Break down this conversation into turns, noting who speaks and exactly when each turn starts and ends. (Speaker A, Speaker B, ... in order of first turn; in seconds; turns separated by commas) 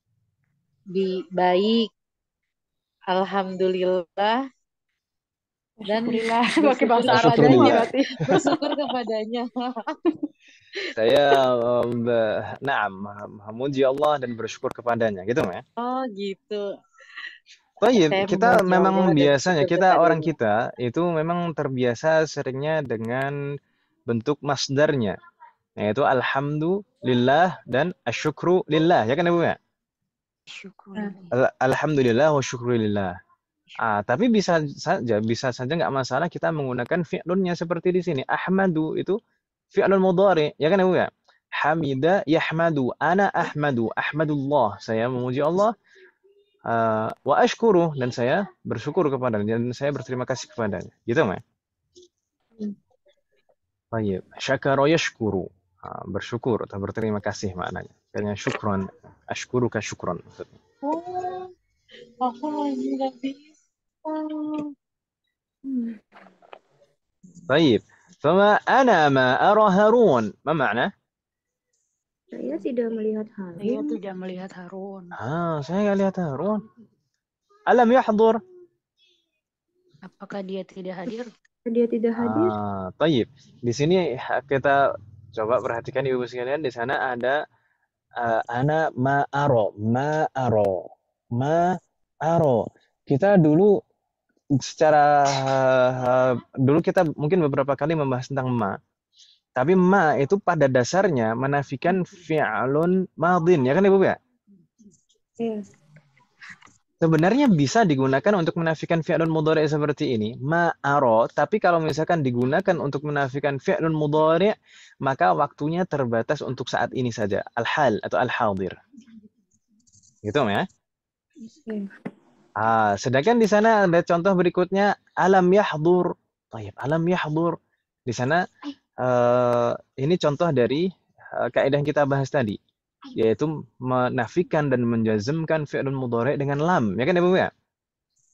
Speaker A: 0.9-1.9, Speaker A: 3.1-4.4, Speaker B: 5.8-8.7, Speaker A: 5.8-10.2, Speaker C: 7.1-7.9, Speaker C: 10.9-15.6, Speaker A: 15.8-16.6, Speaker C: 17.8-23.3, Speaker A: 17.9-20.3, Speaker C: 24.1-25.1, Speaker C: 25.8-29.6, Speaker D: 30.5-31.3, Speaker C: 31.3-33.1, Speaker C: 33.8-39.2, Speaker C: 39.7-45.7, Speaker C: 46.7-51.4, Speaker C: 53.9-60.6, Speaker A: 60.8-61.5, Speaker A: 62.2-63.5, Speaker A: 64.0-64.7, Speaker B: 65.7-66.0, Speaker C: 67.5-70.9, Speaker B: 72.3-74.0, Speaker D: 73.6-75.1, Speaker C: 75.2-76.6, Speaker C: 77.7-78.4, Speaker D: 80.1-81.3, Speaker B: 81.7-82.5, Speaker C: 82.2-84.8, Speaker C: 85.4-87.4, Speaker C: 88.2-93.8, Speaker C: 94.6-98.8, Speaker C: 99.6-104.2, Speaker C: 107.0-118.8, Speaker C: 120.2-120.6, Speaker C: 122.6-127.6, Speaker C: 128.1-128.4, Speaker C: 129.0-130.8, Speaker C: 131.4-132.6, Speaker C: 133.2-137.5